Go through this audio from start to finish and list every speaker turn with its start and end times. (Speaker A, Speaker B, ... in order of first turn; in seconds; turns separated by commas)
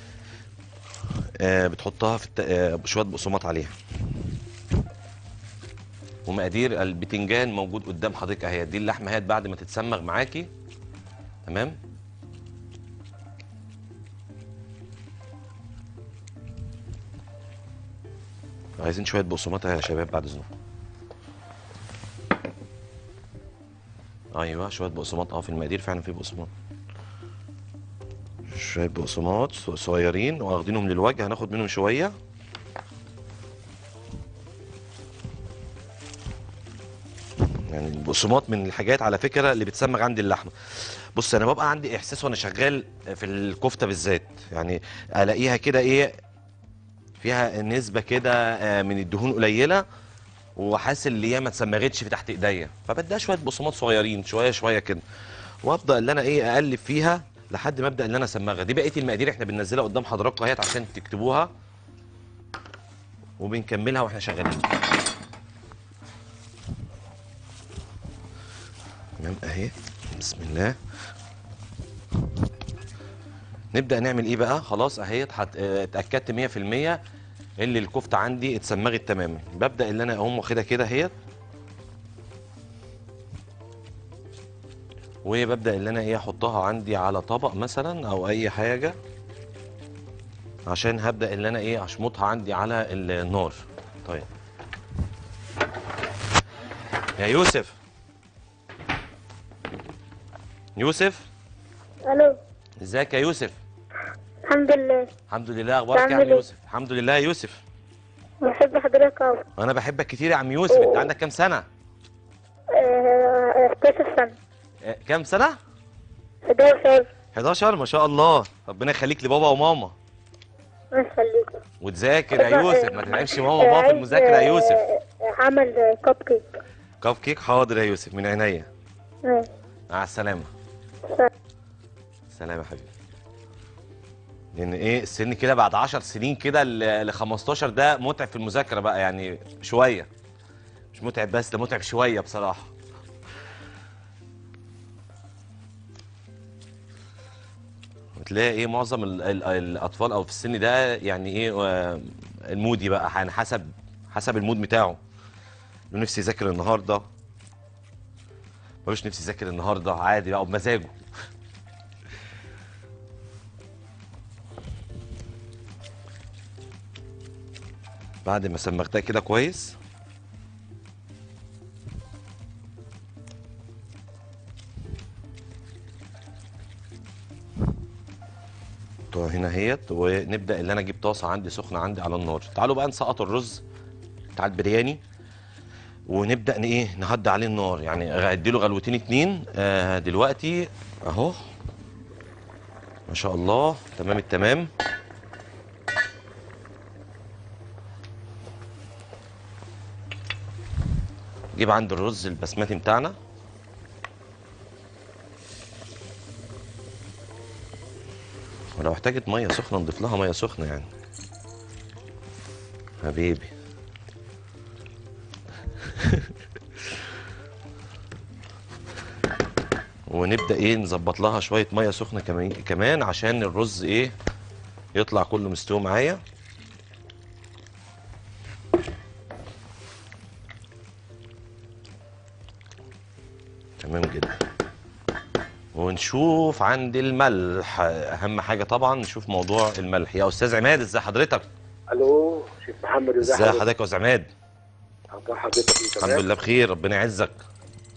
Speaker A: 1.4-3.7, Speaker A: 6.3-10.5, Speaker A: 11.4-11.8, Speaker A: 18.8-20.5, Speaker A: 24.3-26.5, Speaker A: 28.5-32.1, Speaker A: 37.7-40.5, Speaker A: 41.1-46.1, Speaker A: 47.2-49.8, Speaker A: 50.6-55.0, Speaker A: 55.6-61.5, Speaker A: 63.4-64.8, Speaker A: 69.2-70.8, Speaker A: 73.7-77.0, Speaker A: 77.6-81.1, Speaker A: 85.2-89.0, Speaker A: 90.7-94.2, Speaker A: 97.2-97.7, Speaker A: 100.8-101.2, Speaker B: 102.1-102.3, Speaker A: 102.8-103.6, Speaker B: 104.5-105.1, Speaker A: 105.3-107.6, Speaker B: 105.9-106.4, Speaker B: 108.4-109.4, Speaker A: 109.6-111.6, Speaker B: 110.7-111.0, Speaker B: 112.8-114.3, Speaker A: 114.8-115.5, Speaker B: 116.5-117.1, Speaker A: 117.3-119.9, Speaker B: 120.9-121.5, Speaker A: 121.8-124.8, Speaker B: 122.3-126.4, Speaker A: 127.0-128.7, Speaker A: 129.9-130.5, Speaker A: 132.3-132.9, Speaker A: 134.5-140.1, Speaker A: 140.9-142.7, Speaker A: 148.2-155.0, Speaker A: 155.9-157.0, Speaker A: 158.8-161.0, Speaker A: 168.2-169.8, Speaker A: 179.1-183.6, Speaker A: 184.3-185.0, Speaker A: 186.1-191.4, Speaker A: 193.1-194.7, Speaker A: 201.5-203.2, Speaker A: 208.8-210.9, Speaker A: 213.0-213.5, Speaker A: 216.0-216.3, Speaker A: 220.1-224.1, Speaker A: 224.9-226.2, Speaker A: 233.8-234.4, Speaker A: 235.7-241.4, Speaker C: 241.9-243.6, Speaker A: 243.2-244.3, Speaker C: 245.1-246.2, Speaker A: 246.0-247.4